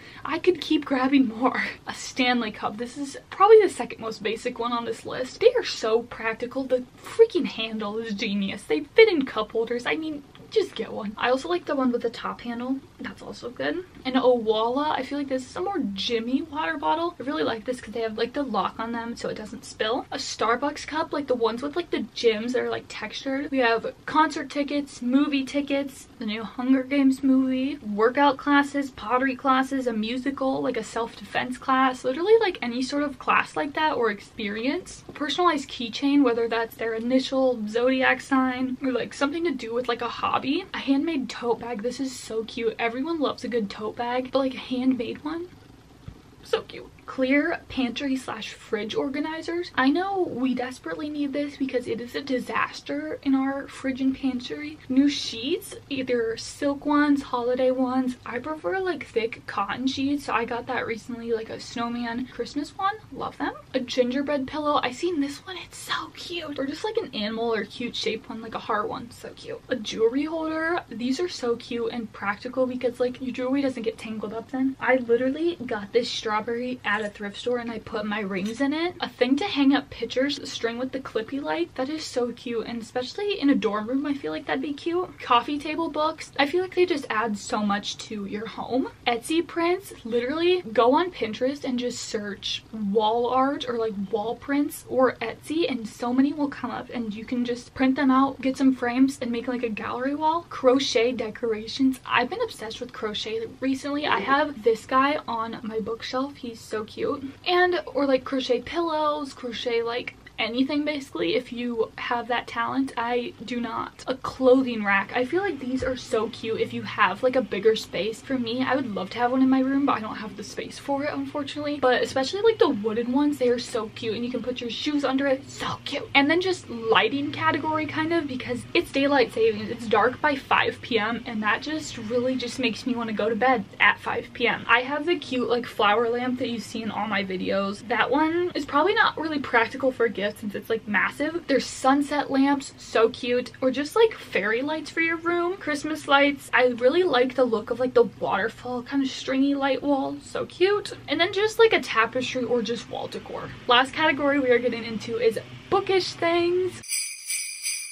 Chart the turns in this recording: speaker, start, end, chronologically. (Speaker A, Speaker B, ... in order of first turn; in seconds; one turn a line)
Speaker A: 0.2-45.5
Speaker A: 46.4-156.8